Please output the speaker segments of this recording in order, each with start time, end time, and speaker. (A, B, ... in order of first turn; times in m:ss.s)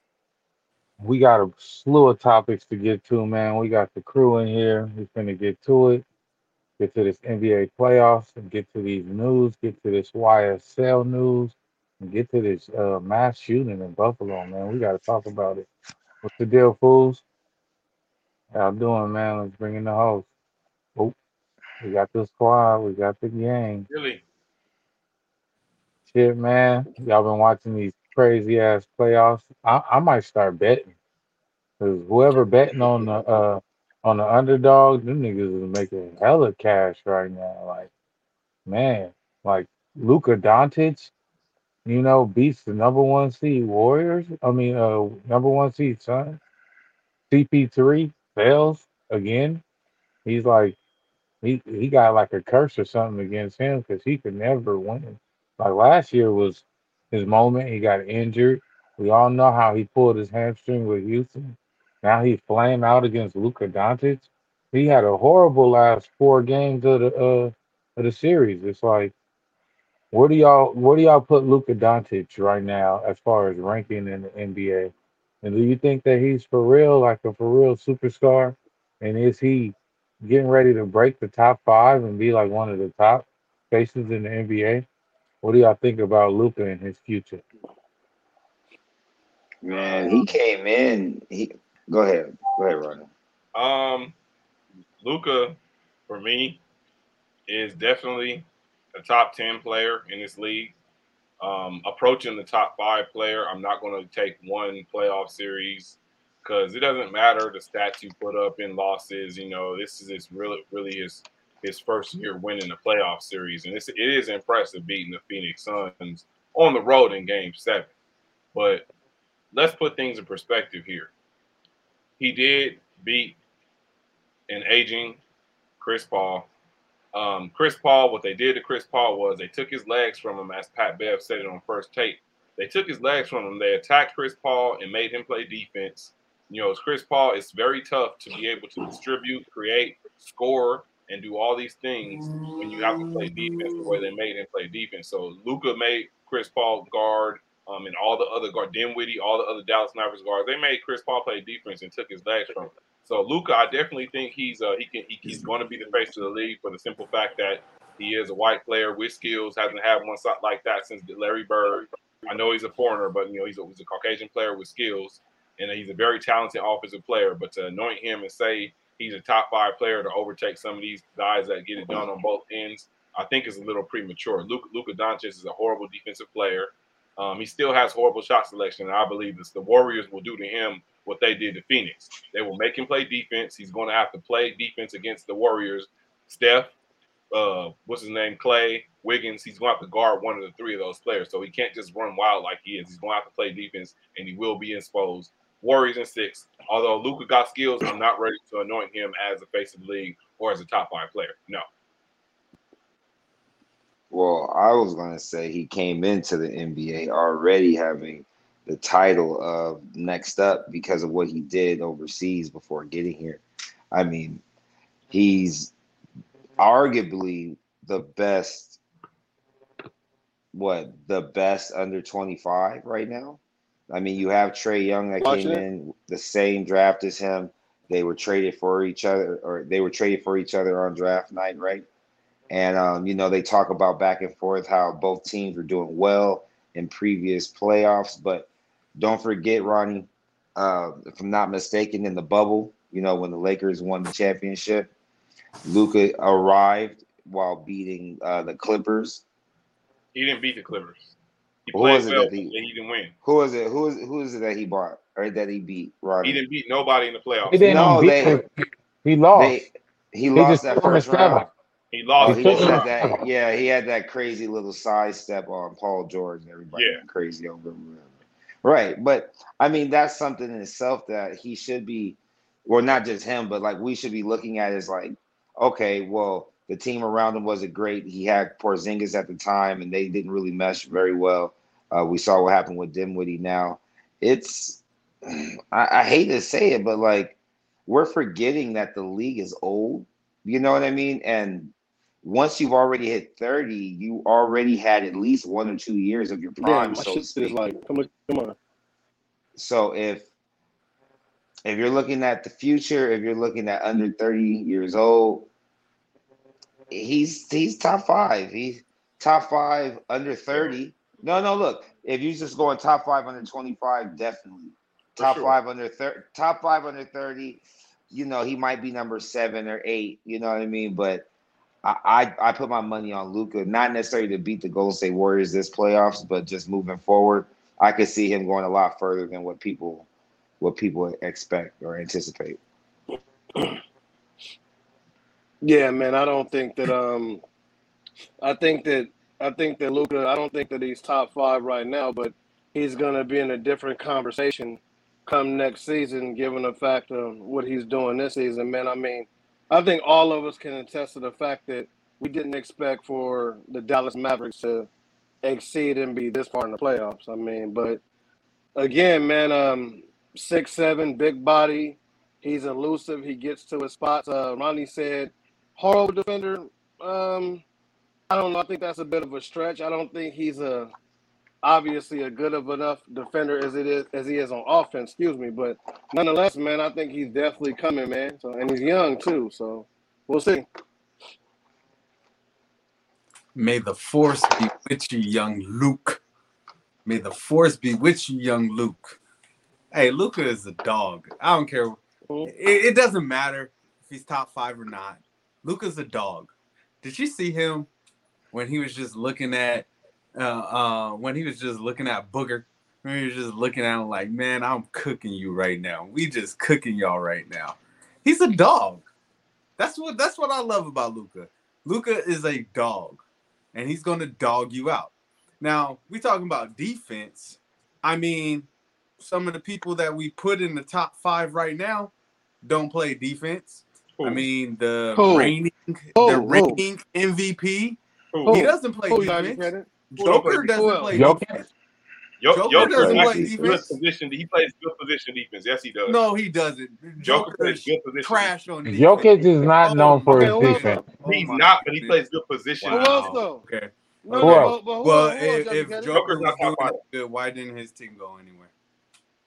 0:01.0-0:06.0 A
0:06.8-0:15.7 A
0:16.2-0:17.2 A
0:18.5-0:20.3 A
0:21.8-0:23.9 A
0:23.9-0:24.2 B
0:26.1-0:30.9 A
0:31.8-0:37.9 A
0:38.7-0:41.1 A
0:41.9-0:46.4 A
0:47.3-0:49.6 A
0:50.2-0:50.8 A
0:51.4-1:09.1 A
1:10.1-1:24.8 A
1:25.4-1:27.4 A
1:29.6-1:33.1 C
1:33.6-1:34.1 B
1:35.0-1:35.6 B
1:36.1-1:36.6 B
1:37.5-1:40.8 B
1:41.4-1:57.9 B
1:58.5-1:58.8 B
1:59.5-2:01.1 B
2:02.2-2:03.4 B
2:04.5-2:05.2 B
2:05.8-2:06.5 B
2:07.1-3:06.7 B
2:22.2-2:24.0 D
3:07.3-3:21.6 B
3:24.1-3:34.4 C
3:35.1-3:35.7 C
3:36.6-3:38.8 C
3:40.5-3:51.9 C
3:45.2-3:45.6 E
3:52.5-4:04.9 C
4:05.6-4:09.2 C
4:10.1-4:11.1 B
4:11.7-4:13.1 B
4:11.7-4:12.5 C
4:13.2-4:16.4 C
4:16.2-4:17.7 B
4:17.5-4:19.6 A
4:17.6-4:18.4 C
4:19.4-4:21.5 C
4:20.4-4:21.5 A
4:21.9-4:22.9 B
4:22.2-4:28.1 C
4:22.2-4:23.2 A
4:26.7-4:27.0 B
4:28.6-4:47.4 C
4:47.9-4:57.6 C
4:56.6-4:58.6 E
4:59.6-5:00.3 C
5:01.6-5:05.5 C
5:06.9-5:21.3 C
5:15.2-5:15.6 B
5:21.8-5:30.1 C
5:30.6-5:32.6 C
5:35.6-5:37.4 E
5:38.4-5:54.9 E
5:55.4-5:58.0 E
5:58.8-6:07.6 E
6:08.3-6:10.9 E
6:11.6-6:20.7 E
6:23.6-6:26.2 D
6:27.0-6:29.2 D
6:29.9-6:37.9 D
6:38.5-6:49.0 D
6:49.8-6:53.2 D
6:53.7-7:11.6 D
7:04.2-7:04.4 B
7:05.1-7:05.6 E
7:06.2-7:06.8 E
7:08.3-7:08.6 B
7:08.5-7:09.9 E
7:10.2-7:10.7 B
7:10.7-7:11.2 E
7:11.1-7:11.6 A
7:12.4-7:16.2 B
7:12.5-7:14.0 D
7:12.7-7:13.8 C
7:16.1-7:22.2 D
7:17.2-7:18.5 B
7:18.8-7:21.0 A
7:20.3-7:21.0 E
7:21.2-7:23.3 B
7:22.8-7:28.7 D
7:22.9-7:23.6 E
7:24.2-7:26.2 E
7:24.4-7:24.8 A
7:26.1-7:27.0 B